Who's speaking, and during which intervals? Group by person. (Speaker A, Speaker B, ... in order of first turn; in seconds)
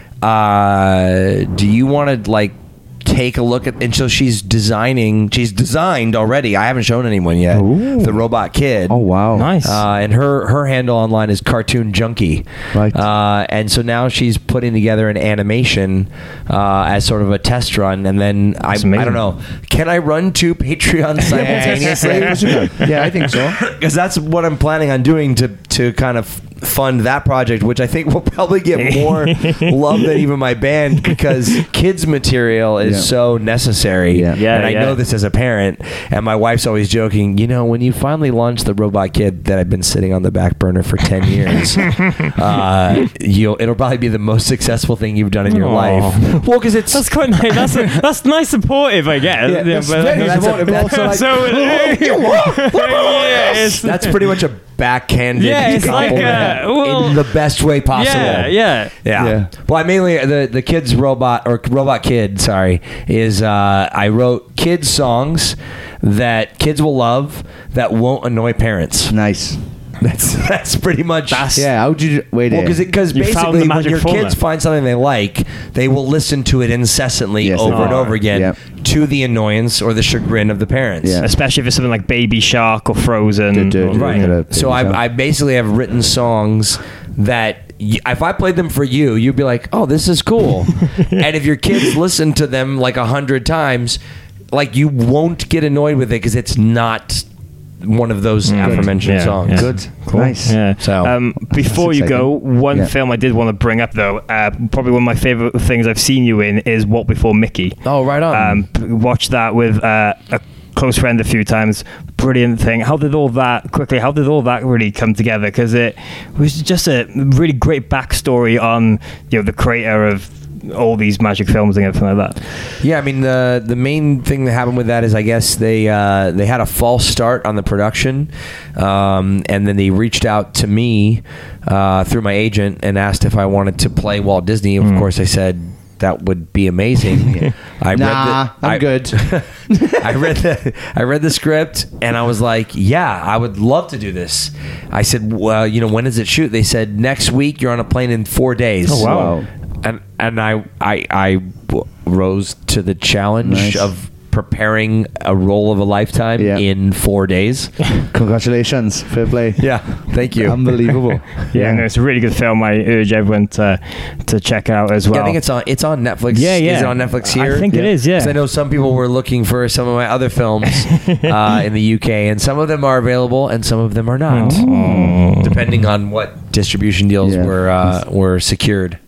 Speaker A: 0.2-9.0, 9.6-22.9, 23.6-47.3, 50.1-51.5, 53.8-69.1, 70.0-71.6, 72.5-81.2, 83.9-94.0, 94.5-97.3, 97.8-99.9, 100.8-101.1, 107.8-108.6, 122.8-158.0, 159.6-161.2, 165.1-174.7, 175.3-179.0
Speaker B: 7.6-8.1, 9.3-9.8, 18.7-19.2, 21.4-22.6, 28.8-29.7, 34.4-35.0, 45.5-54.1, 55.4-57.2, 57.9-58.9, 71.3-71.6, 73.1-74.4, 77.7-78.2, 81.2-84.3, 98.5-122.4, 134.8-135.1, 148.9-149.3, 161.5-165.4, 166.3-168.3, 170.9-171.3, 174.3-175.5
Speaker C: 8.9-9.5, 12.7-13.0, 21.3-23.6, 32.8-33.1, 34.1-34.4, 49.4-53.9, 55.6-56.7, 58.1-58.5, 59.1-59.5, 69.1-69.6, 71.5-72.8, 77.4-78.6, 81.0-81.3, 83.5-85.0, 98.6-100.8, 101.3-102.9, 137.9-140.3, 148.9-149.5, 153.4-153.9, 156.4-156.6, 158.1-161.8, 174.4-175.2, 177.2-178.0